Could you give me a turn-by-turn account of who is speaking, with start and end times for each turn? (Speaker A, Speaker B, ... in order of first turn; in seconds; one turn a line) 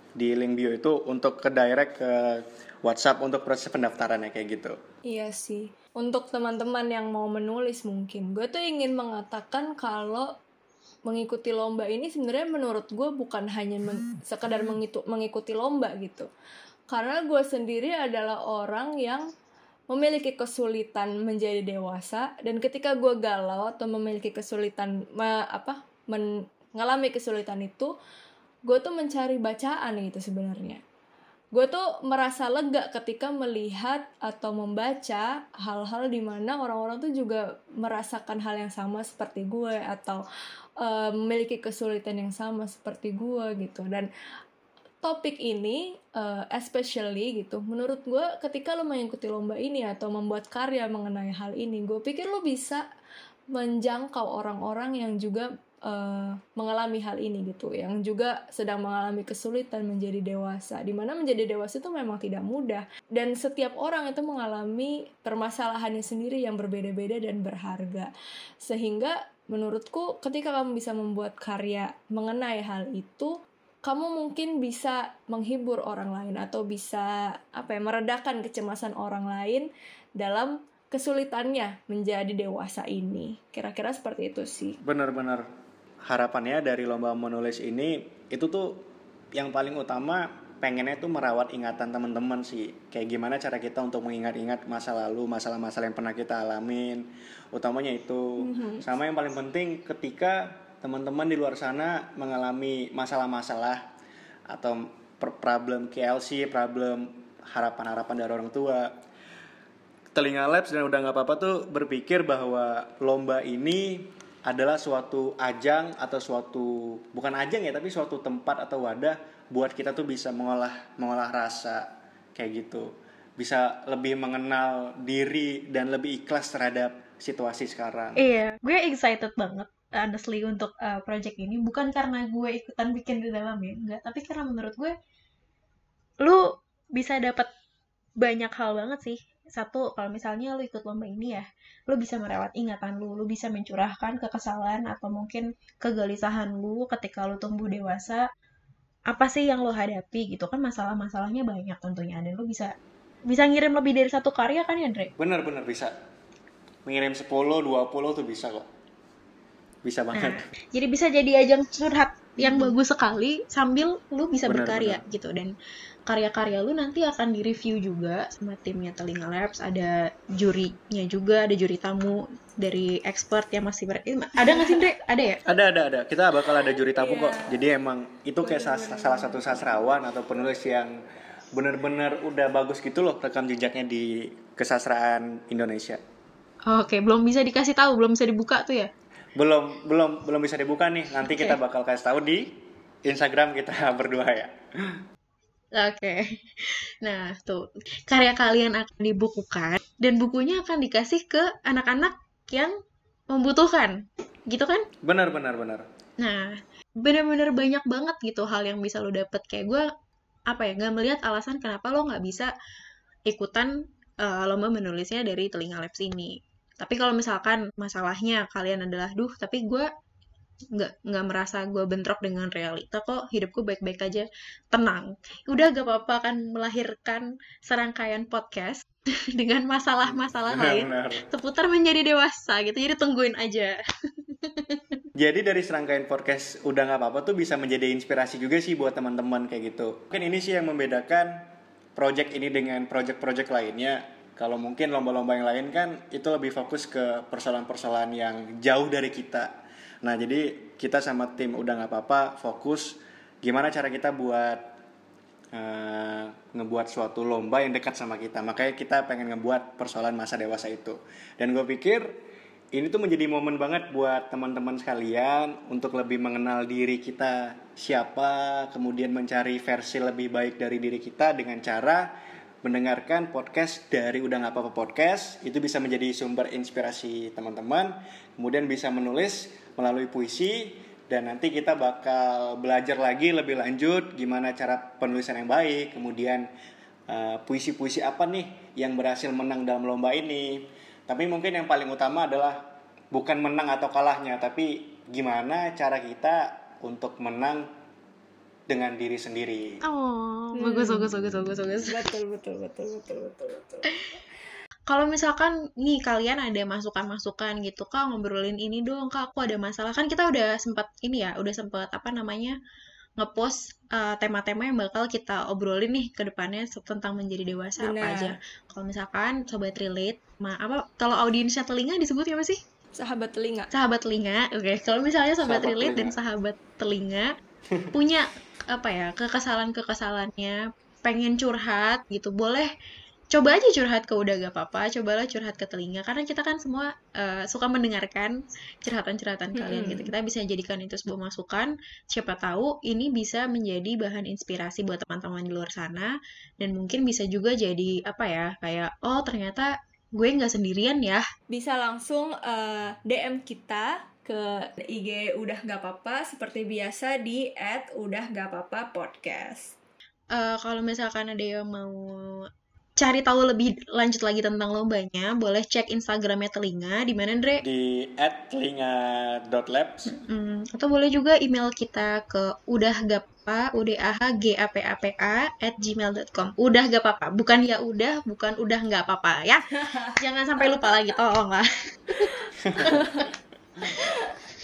Speaker A: 0.2-4.8
Speaker B: 5.1-10.3
Speaker B: 11.1-16.3
Speaker B: 16.9-19.3
Speaker B: 19.9-27.9
Speaker B: 28.7-30.8
Speaker B: 31.5-40.2
Speaker B: 40.8-44.1
Speaker B: 45.0-52.8
Speaker B: 53.5-68.1
Speaker B: 68.6-84.8
Speaker A: 84.8-85.5
Speaker A: 86.0-103.8
Speaker B: 98.4-98.8
Speaker A: 104.5-108.9
Speaker A: 110.1-128.2
Speaker C: 128.2-134.9
Speaker C: 136.2-137.5
Speaker C: 138.2-148.3
Speaker C: 149.1-152.7
Speaker C: 153.3-155.1
Speaker A: 155.2-155.9
Speaker A: 156.8-158.7
Speaker A: 159.8-160.5
Speaker C: 160.1-165.5
Speaker A: 164.5-165.0
Speaker C: 166.1-175.4
Speaker B: 174.5-174.8
Speaker A: 175.5-181.0
Speaker B: 176.9-177.6
Speaker B: 178.4-179.9
Speaker A: 181.6-186.0
Speaker C: 186.7-188.9
Speaker A: 189.4-192.5
Speaker C: 191.3-191.6
Speaker A: 193.1-195.0
Speaker C: 195.8-202.8
Speaker C: 203.3-204.0
Speaker C: 204.5-204.9
Speaker A: 205.0-205.9
Speaker C: 206.2-209.9
Speaker C: 210.5-212.5
Speaker C: 213.3-219.9
Speaker C: 220.7-234.9
Speaker A: 230.1-231.3
Speaker A: 235.2-249.5
Speaker A: 250.0-254.7
Speaker A: 255.5-262.1
Speaker A: 262.7-272.1
Speaker A: 272.6-286.5
Speaker A: 287.1-297.7
Speaker A: 298.7-299.8
Speaker C: 299.8-302.0
Speaker B: 300.6-301.1
Speaker B: 301.8-304.0
Speaker C: 304.9-312.6
Speaker C: 313.2-322.6
Speaker B: 317.8-318.4
Speaker B: 322.9-323.7
Speaker C: 323.7-327.3
Speaker A: 325.4-326.1
Speaker C: 327.9-332.7
Speaker C: 333.3-351.3
Speaker B: 339.6-340.1
Speaker B: 351.5-359.7
Speaker C: 360.3-362.5
Speaker C: 363.0-367.6
Speaker A: 367.6-370.1
Speaker C: 370.1-383.1
Speaker A: 382.6-382.9
Speaker B: 382.8-383.3
Speaker B: 384.0-384.4